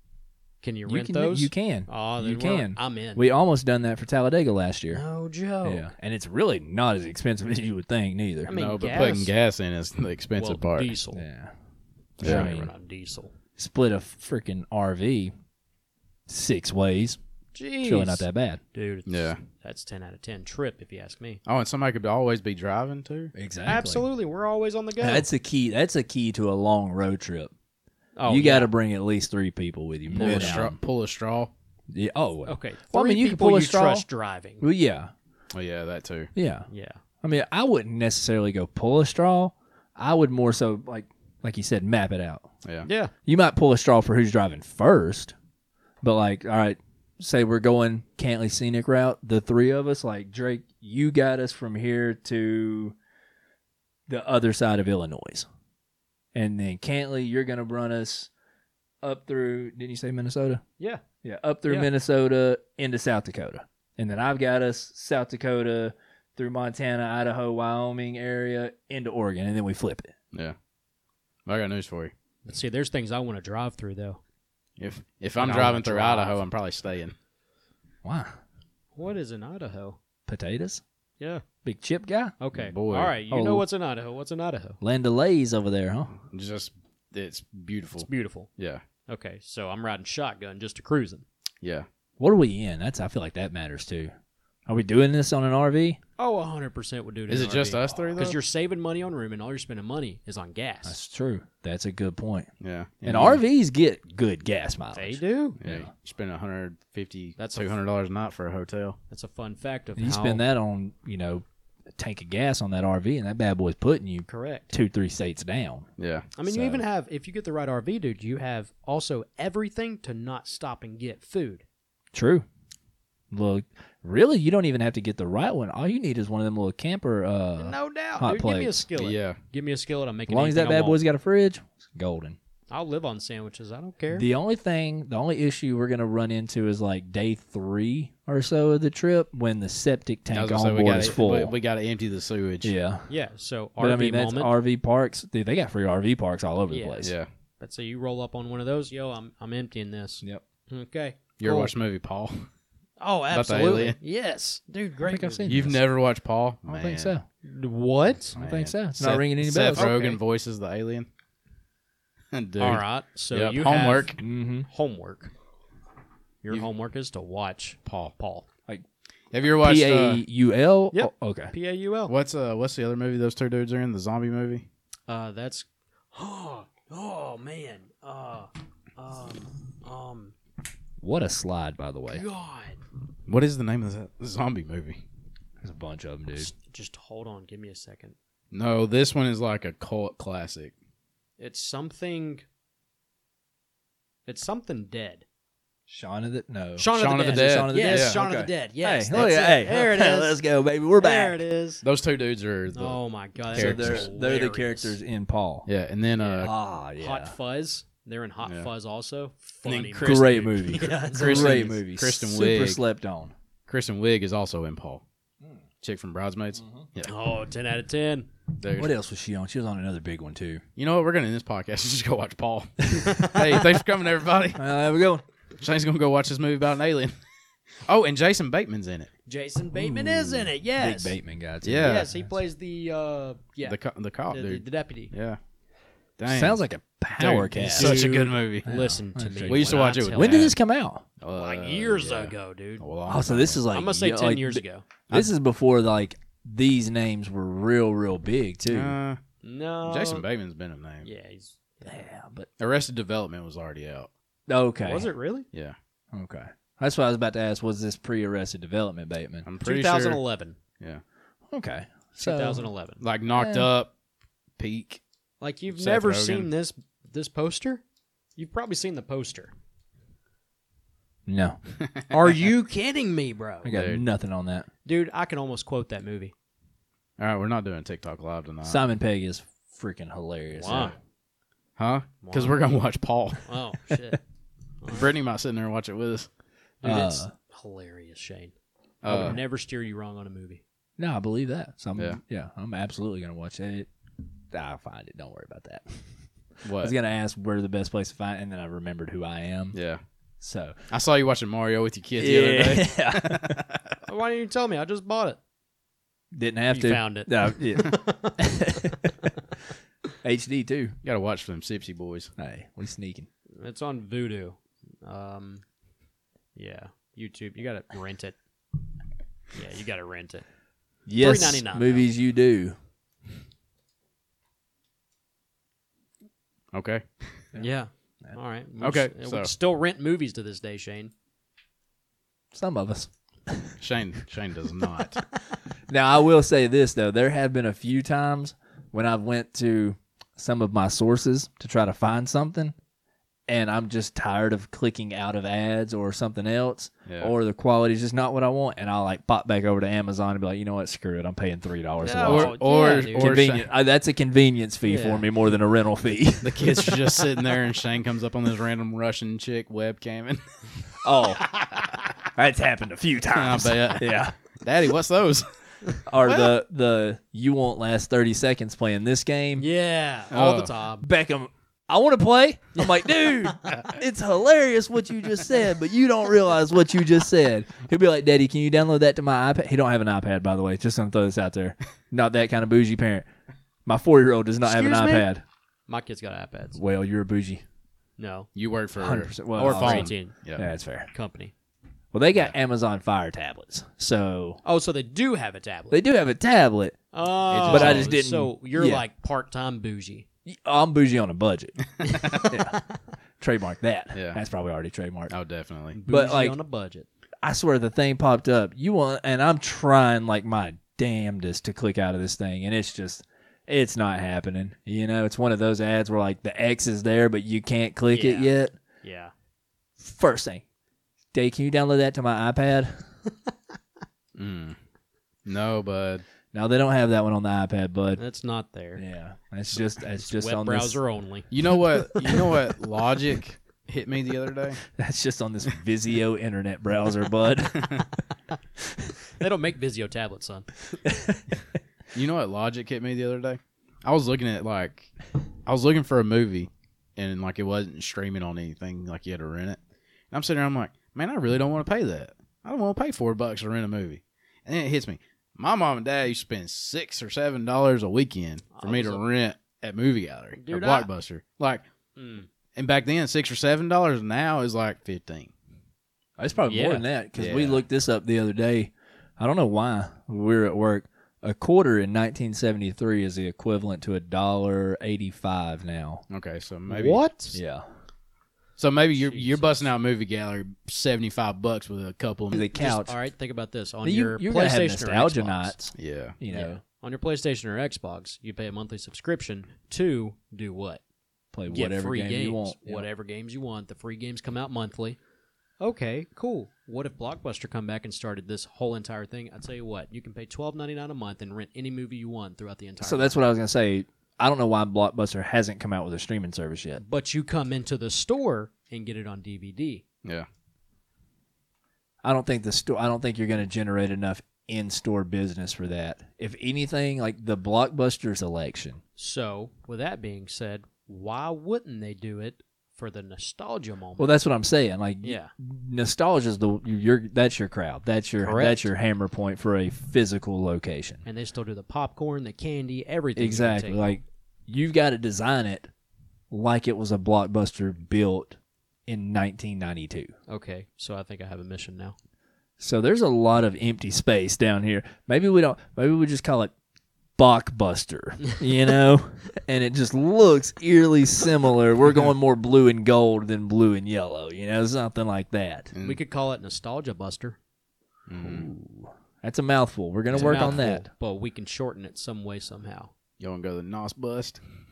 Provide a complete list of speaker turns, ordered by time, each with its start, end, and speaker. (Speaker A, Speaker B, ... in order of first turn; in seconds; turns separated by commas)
Speaker A: 0.6-3.3, Speaker B: 0.9-5.0, Speaker A: 4.9-5.9, Speaker B: 5.6-8.5, Speaker A: 8.4-9.3, Speaker C: 8.5-10.9, Speaker A: 10.4-11.2, Speaker B: 11.1-11.5, Speaker B: 12.2-12.7, Speaker A: 12.2-13.3, Speaker C: 12.2-12.5, Speaker B: 13.6-15.3, Speaker B: 16.3-17.2, Speaker A: 17.5-21.4, Speaker B: 17.8-18.6, Speaker C: 19.1-19.4, Speaker C: 21.4-23.3, Speaker B: 23.3-24.0, Speaker A: 23.6-25.3, Speaker B: 25.0-27.5, Speaker A: 28.2-28.7, Speaker B: 28.3-30.7, Speaker A: 30.1-30.7, Speaker C: 30.1-31.5, Speaker B: 31.9-34.0, Speaker A: 32.5-34.6, Speaker B: 34.6-35.1, Speaker C: 35.5-36.3, Speaker B: 36.3-36.7, Speaker A: 36.7-37.0, Speaker B: 37.2-42.4, Speaker A: 42.9-43.1, Speaker B: 43.2-45.3, Speaker B: 46.0-53.0, Speaker B: 54.1-55.5, Speaker B: 56.3-58.3, Speaker B: 59.0-60.6, Speaker B: 61.2-70.1, Speaker C: 71.5-72.1, Speaker A: 72.4-74.2, Speaker C: 74.8-77.1, Speaker A: 75.4-76.4, Speaker B: 78.0-78.4, Speaker A: 79.0-80.0, Speaker B: 80.3-80.8, Speaker B: 81.6-82.3, Speaker A: 82.4-84.8, Speaker C: 82.6-83.1, Speaker B: 83.3-83.6, Speaker B: 84.8-86.1, Speaker C: 86.3-88.8, Speaker A: 88.0-88.5, Speaker A: 89.1-91.2, Speaker C: 91.6-91.9, Speaker B: 92.2-94.1, Speaker B: 94.7-96.0, Speaker A: 96.2-101.0, Speaker C: 97.3-98.4, Speaker B: 100.8-102.5, Speaker C: 102.6-103.4, Speaker B: 103.0-105.9, Speaker A: 104.9-105.6, Speaker C: 105.6-109.0, Speaker A: 107.4-107.8, Speaker A: 109.1-110.4, Speaker B: 110.0-111.4, Speaker B: 112.0-115.9, Speaker A: 114.3-114.7, Speaker C: 116.0-116.3, Speaker A: 116.3-121.6, Speaker B: 116.5-116.8, Speaker B: 122.1-122.4, Speaker B: 123.3-128.8, Speaker A: 127.6-131.0, Speaker C: 128.9-129.4, Speaker B: 130.3-132.4, Speaker A: 132.7-134.3, Speaker B: 134.1-141.5, Speaker C: 140.3-142.7, Speaker B: 142.6-143.1, Speaker A: 143.1-144.5, Speaker B: 143.8-147.1, Speaker A: 146.7-147.1, Speaker C: 147.0-147.3, Speaker A: 147.6-151.7, Speaker C: 151.4-152.5, Speaker A: 153.0-155.5, Speaker C: 153.3-154.0, Speaker B: 155.0-155.8, Speaker C: 155.5-157.1, Speaker B: 156.7-157.2, Speaker A: 157.4-158.3, Speaker B: 158.3-159.9, Speaker C: 158.3-161.1, Speaker A: 159.7-160.2, Speaker C: 162.3-164.2, Speaker A: 162.6-165.3, Speaker B: 164.2-164.7, Speaker A: 166.4-168.4, Speaker C: 167.8-168.1, Speaker C: 169.3-170.2, Speaker B: 169.4-171.5, Speaker A: 170.9-172.1, Speaker C: 172.1-174.7, Speaker A: 175.1-180.3, Speaker B: 181.0-182.2, Speaker A: 182.1-182.8, Speaker C: 183.3-185.0, Speaker B: 185.6-186.5, Speaker A: 186.3-188.1, Speaker C: 188.5-190.7, Speaker A: 191.4-192.4, Speaker A: 194.3-195.2, Speaker B: 195.9-201.4, Speaker A: 196.8-200.4, Speaker C: 196.9-198.2, Speaker A: 201.0-201.8, Speaker C: 201.8-203.0, Speaker A: 202.7-204.9, Speaker C: 203.5-204.1, Speaker B: 203.5-205.7, Speaker C: 205.7-206.5, Speaker A: 206.2-211.6, Speaker B: 206.4-207.3, Speaker C: 208.4-208.7, Speaker C: 209.6-210.5, Speaker B: 210.0-213.3, Speaker C: 211.1-212.8, Speaker C: 213.7-215.0, Speaker C: 215.8-217.1, Speaker B: 216.6-216.8, Speaker A: 217.0-218.3, Speaker C: 218.6-218.9, Speaker B: 218.7-220.6, Speaker C: 220.8-224.6, Speaker A: 223.1-223.6, Speaker B: 224.6-225.2, Speaker C: 225.6-227.1, Speaker C: 227.8-229.1, Speaker A: 229.3-231.2, Speaker B: 229.7-232.3, Speaker C: 231.6-232.1, Speaker A: 231.8-233.8, Speaker C: 233.6-235.4, Speaker A: 234.3-235.1, Speaker C: 236.2-236.6, Speaker B: 236.3-241.0, Speaker C: 237.1-238.7, Speaker A: 237.7-240.5, Speaker C: 239.5-240.6, Speaker C: 241.2-243.6, Speaker A: 241.3-242.9, Speaker B: 243.1-248.9, Speaker A: 243.7-244.9, Speaker C: 248.7-249.2, Speaker A: 249.4-250.2, Speaker C: 249.8-251.1, Speaker A: 251.0-251.9, Speaker B: 251.8-252.5, Speaker C: 252.6-254.1, Speaker B: 254.5-255.1, Speaker A: 254.8-255.5, Speaker B: 256.1-259.4, Speaker C: 259.4-260.2, Speaker A: 259.6-260.6, Speaker B: 261.5-262.7, Speaker A: 262.2-263.0, Speaker C: 263.0-263.9, Speaker B: 263.3-263.7, Speaker C: 264.6-265.0, Speaker A: 265.4-267.8, Speaker C: 265.7-266.5, Speaker A: 268.4-269.5, Speaker B: 271.2-271.6, Speaker C: 271.8-272.2, Speaker A: 272.1-273.7, Speaker B: 273.6-274.7, Speaker C: 273.7-274.0, Speaker A: 274.8-276.3, Speaker C: 277.2-278.8, Speaker B: 278.6-280.9, Speaker A: 280.5-280.9, Speaker C: 281.8-283.5, Speaker A: 282.2-282.6, Speaker A: 283.4-284.2, Speaker A: 284.8-285.1, Speaker C: 284.9-286.3, Speaker A: 286.8-288.5, Speaker B: 286.8-287.3, Speaker C: 289.0-289.4, Speaker B: 289.1-289.4, Speaker A: 289.1-290.6, Speaker B: 291.0-293.9, Speaker B: 294.5-296.0, Speaker C: 296.6-296.9, Speaker B: 296.8-299.8, Speaker C: 299.7-300.0, Speaker B: 300.4-300.8, Speaker C: 300.9-303.9, Speaker B: 302.2-303.6, Speaker A: 304.1-305.4, Speaker B: 306.3-309.1, Speaker A: 306.7-309.3, Speaker B: 310.2-310.9, Speaker C: 311.0-312.3, Speaker B: 312.4-313.3, Speaker A: 313.6-315.6, Speaker A: 316.6-318.3, Speaker A: 319.5-320.4, Speaker B: 321.1-322.8, Speaker A: 321.2-322.1, Speaker C: 326.7-327.3, Speaker A: 327.6-331.1, Speaker C: 328.8-329.5, Speaker B: 332.5-333.7, Speaker C: 333.8-335.2, Speaker B: 335.9-342.7, Speaker B: 343.5-357.0, Speaker C: 347.1-347.3, Speaker A: 352.0-353.3, Speaker C: 352.2-353.7, Speaker A: 354.8-355.3, Speaker C: 356.4-360.4, Speaker B: 361.0-361.4, Speaker B: 362.3-364.4, Speaker C: 363.3-365.5, Speaker B: 366.1-369.7, Speaker C: 366.2-366.5, Speaker A: 369.6-371.0, Speaker C: 370.3-370.7, Speaker B: 371.0-383.3, Speaker A: 372.8-373.8, Speaker B: 383.9-385.4, Speaker A: 384.6-385.3, Speaker A: 385.9-386.8, Speaker B: 386.7-387.6, Speaker A: 388.2-388.5, Speaker C: 388.5-390.7, Speaker B: 389.0-391.1, Speaker A: 389.6-390.4, Speaker A: 391.1-391.5, Speaker B: 392.1-394.6, Speaker A: 394.6-396.0, Speaker B: 395.9-397.0, Speaker A: 397.1-400.2, Speaker C: 397.5-398.1, Speaker B: 397.7-399.0, Speaker B: 400.4-401.8, Speaker C: 402.0-402.4, Speaker A: 402.0-402.8, Speaker B: 402.3-402.8, Speaker B: 403.4-405.3, Speaker C: 404.1-404.4, Speaker C: 405.3-406.0, Speaker A: 405.9-407.1, Speaker B: 406.1-406.6, Speaker B: 407.4-418.8, Speaker A: 418.1-419.3, Speaker B: 420.0-420.6, Speaker B: 421.3-423.0, Speaker C: 424.4-424.8, Speaker C: 425.4-426.2, Speaker B: 426.5-428.2, Speaker A: 428.2-429.0, Speaker B: 428.9-431.0, Speaker A: 430.2-431.5, Speaker C: 431.5-434.8, Speaker A: 432.1-432.5, Speaker B: 434.9-438.1, Speaker A: 439.3-440.9, Speaker B: 441.0-441.4, Speaker C: 442.1-445.1, Speaker C: 445.6-449.8, Speaker C: 450.3-461.9, Speaker A: 458.7-459.2, Speaker A: 460.6-461.1, Speaker A: 462.2-462.5, Speaker C: 462.7-465.5, Speaker B: 466.4-476.2, Speaker A: 466.7-467.1, Speaker C: 467.4-467.8, Speaker C: 476.3-477.2, Speaker A: 476.9-477.6, Speaker B: 477.5-477.9, Speaker C: 478.8-482.7, Speaker A: 479.2-479.9, Speaker B: 482.5-483.1, Speaker A: 482.8-485.8, Speaker B: 484.0-486.8, Speaker C: 485.9-486.4, Speaker A: 486.5-491.0, Speaker B: 491.5-493.1, Speaker A: 491.7-495.2, Speaker A: 495.8-503.4, Speaker B: 503.0-507.0, Speaker A: 507.0-510.0, Speaker B: 512.2-519.0, Speaker A: 519.2-524.3, Speaker B: 524.2-531.2, Speaker A: 525.2-525.5, Speaker A: 528.4-528.9, Speaker A: 531.2-534.2, Speaker B: 533.4-535.9, Speaker B: 536.5-540.3, Speaker A: 540.5-542.1, Speaker B: 542.8-546.7, Speaker B: 547.4-555.9, Speaker C: 555.9-556.2, Speaker A: 556.0-557.6, Speaker C: 558.3-558.7, Speaker B: 558.4-561.1, Speaker C: 560.3-560.8, Speaker A: 560.3-563.1, Speaker C: 563.4-564.6